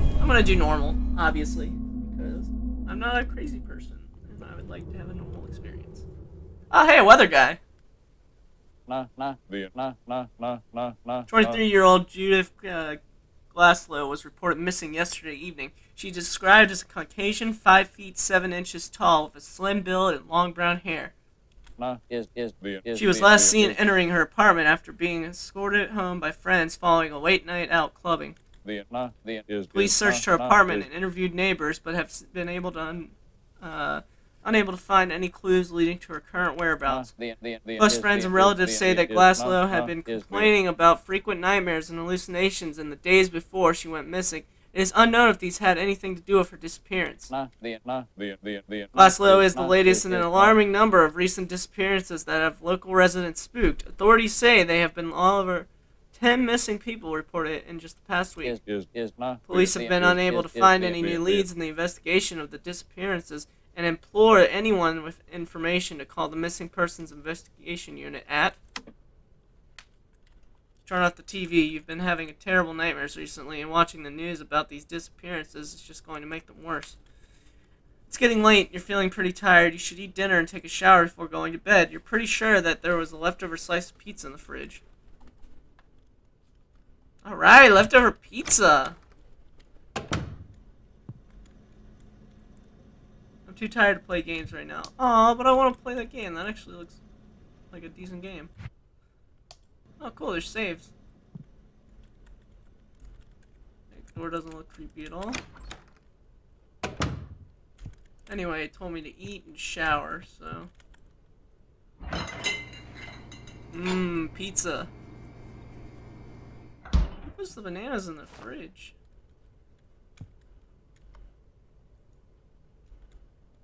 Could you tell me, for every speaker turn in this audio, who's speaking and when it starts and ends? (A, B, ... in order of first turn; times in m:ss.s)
0:00.2-0:06.0 A
0:06.7-0:07.6 A
0:08.9-0:11.6 B
0:11.3-0:13.0 A
0:13.5-0:21.1 A
0:21.8-0:23.8 B
0:22.9-0:28.4 A
0:28.6-0:30.9 B
0:29.7-0:37.1 A
0:36.9-0:40.5 B
0:37.8-0:47.3 A
0:47.3-0:50.6 B
0:48.9-0:58.5 A
0:58.4-1:01.5 B
0:59.5-1:08.6 A
1:10.8-1:17.0 A
1:18.1-1:24.8 A
1:27.2-1:29.0 A
1:33.5-1:37.0 A
1:37.7-1:38.5 A
1:40.0-1:40.9 A
1:43.9-1:45.4 A
1:48.3-1:50.7 A
1:53.7-1:54.9 A
1:57.2-1:59.0 A